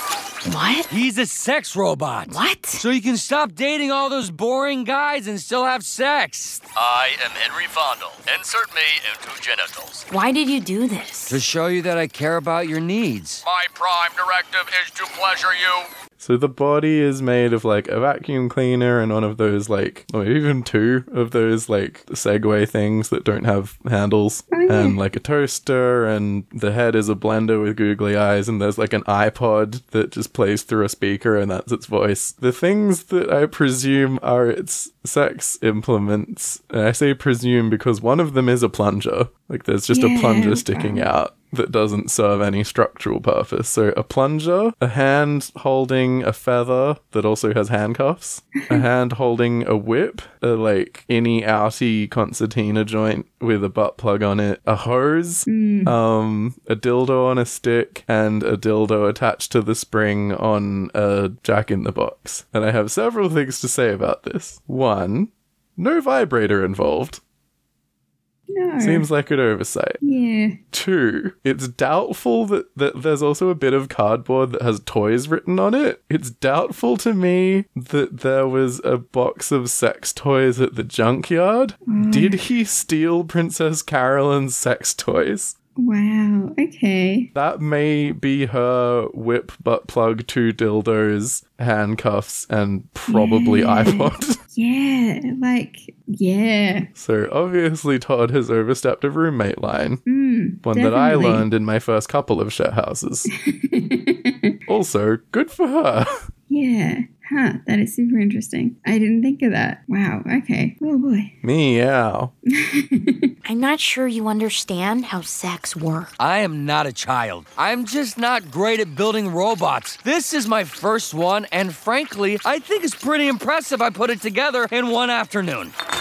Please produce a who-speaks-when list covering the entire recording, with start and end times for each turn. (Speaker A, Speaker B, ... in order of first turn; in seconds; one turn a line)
Speaker A: 0.4-0.9
Speaker B: 0.9-6.6
Speaker A: 2.3-2.8
Speaker C: 6.8-10.1
Speaker A: 10.1-11.4
Speaker B: 11.3-13.4
Speaker C: 13.4-15.9
Speaker D: 16.2-67.2
Speaker E: 24.5-25.0
Speaker E: 39.9-41.1
Speaker E: 55.5-56.0
Speaker E: 68.5-69.1
Speaker D: 68.8-70.0
Speaker E: 70.0-70.6
Speaker D: 70.7-85.5
Speaker E: 81.9-82.4
Speaker E: 85.8-87.3
Speaker D: 87.3-94.4
Speaker E: 93.1-96.9
Speaker D: 97.0-100.0
Speaker E: 100.1-101.5
Speaker D: 100.7-103.3
Speaker E: 103.5-104.6
Speaker D: 104.7-106.2
Speaker E: 106.5-111.3
Speaker D: 111.4-112.3
Speaker E: 112.6-113.3
Speaker A: 113.5-116.1
Speaker B: 116.2-125.7